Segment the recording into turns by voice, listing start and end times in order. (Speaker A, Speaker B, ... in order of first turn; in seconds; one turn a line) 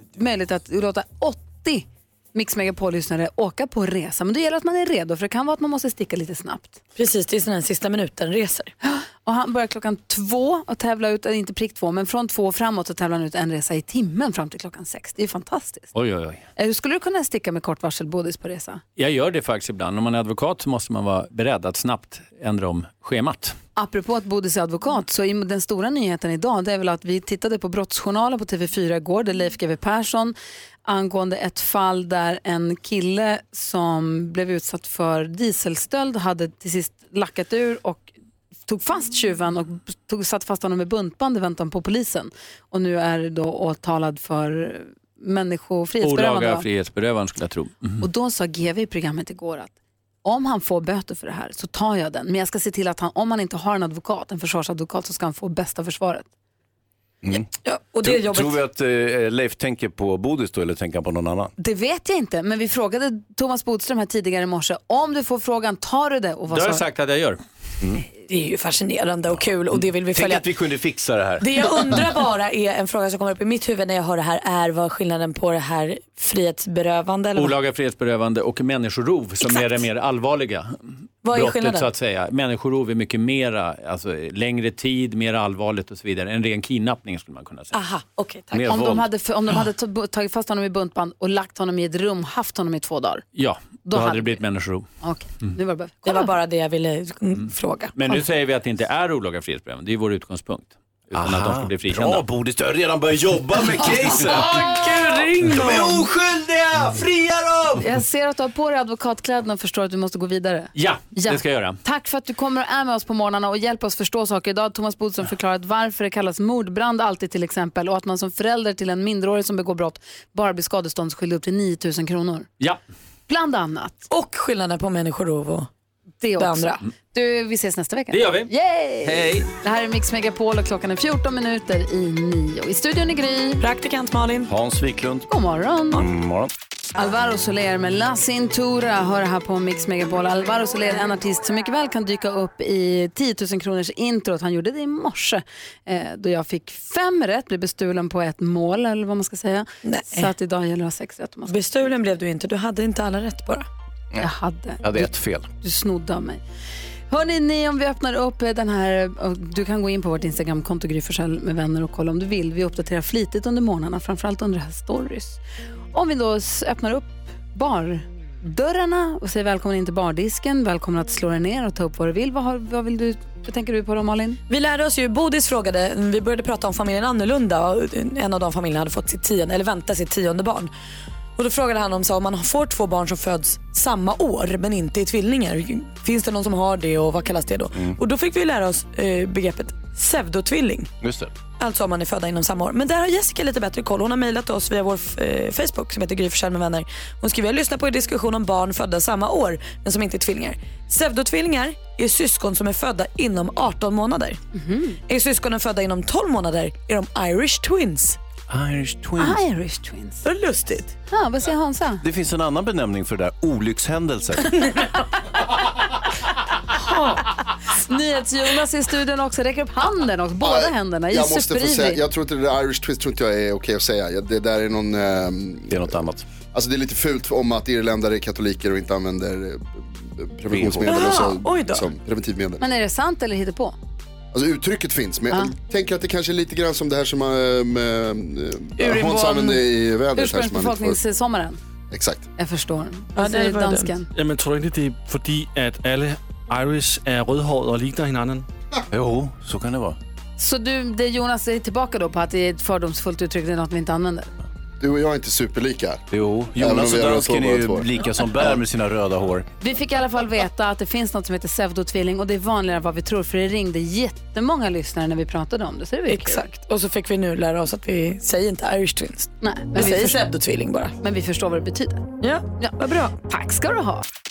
Speaker A: 0.1-6.8
Speaker B: 7.0-8.7
Speaker A: 8.8-15.9
Speaker C: 15.9-16.4
Speaker A: 16.6-18.8
Speaker C: 19.0-23.6
Speaker A: 23.8-38.1
Speaker A: 38.7-46.6
Speaker C: 46.0-48.0
Speaker A: 48.0-49.7
Speaker A: 50.2-56.3
Speaker B: 57.6-58.6
Speaker D: 58.0-61.5
Speaker A: 61.6-66.8
Speaker C: 66.5-67.4
Speaker B: 68.3-70.4
Speaker D: 69.7-71.5
Speaker B: 71.4-77.5
Speaker C: 77.3-87.8
Speaker B: 79.4-79.8
Speaker B: 81.2-81.9
Speaker B: 87.7-88.8
Speaker D: 88.5-89.0
Speaker A: 88.7-93.2
Speaker C: 88.7-89.0
Speaker C: 93.3-94.9
Speaker A: 93.8-94.4
Speaker A: 95.0-96.3
Speaker B: 96.0-98.0
Speaker C: 98.0-102.3
Speaker D: 101.2-104.9
Speaker B: 103.7-106.1
Speaker D: 105.5-107.8
Speaker A: 107.8-122.5
Speaker C: 110.8-111.8
Speaker A: 123.3-124.1
Speaker B: 124.1-125.7
Speaker A: 126.2-133.6
Speaker B: 126.4-126.8
Speaker C: 128.1-129.5
Speaker B: 133.6-134.5
Speaker D: 134.5-135.3
Speaker A: 135.3-136.0
Speaker D: 135.9-136.5
Speaker A: 137.0-151.5
Speaker B: 149.8-150.3
Speaker B: 151.5-153.7
Speaker A: 154.2-156.4
Speaker D: 154.8-155.5
Speaker A: 157.1-165.4
Speaker A: 165.9-174.4
Speaker B: 174.5-180.7
Speaker B: 181.4-190.9
Speaker D: 191.0-191.3
Speaker B: 191.6-204.4
Speaker A: 204.5-205.0
Speaker B: 205.1-208.2
Speaker D: 208.5-209.4
Speaker A: 209.2-210.2
Speaker B: 210.2-210.9
Speaker A: 211.1-212.0
Speaker D: 212.0-214.7
Speaker A: 217.7-222.0
Speaker E: 220.4-225.9
Speaker D: 225.7-226.3
Speaker E: 226.5-232.6
Speaker D: 230.5-231.0
Speaker B: 230.8-231.8
Speaker A: 232.6-233.8
Speaker E: 234.3-241.0
Speaker B: 238.8-239.6
Speaker A: 240.2-241.6
Speaker E: 241.9-242.3
Speaker A: 242.4-244.1
Speaker B: 243.2-243.9
Speaker F: 244.1-248.5
Speaker D: 248.9-250.0
Speaker A: 250.4-254.3
Speaker E: 254.8-257.9
Speaker D: 256.1-259.5
Speaker A: 259.6-266.5
Speaker B: 266.1-270.9
Speaker A: 269.4-270.3
Speaker A: 271.0-274.1
Speaker B: 272.2-273.1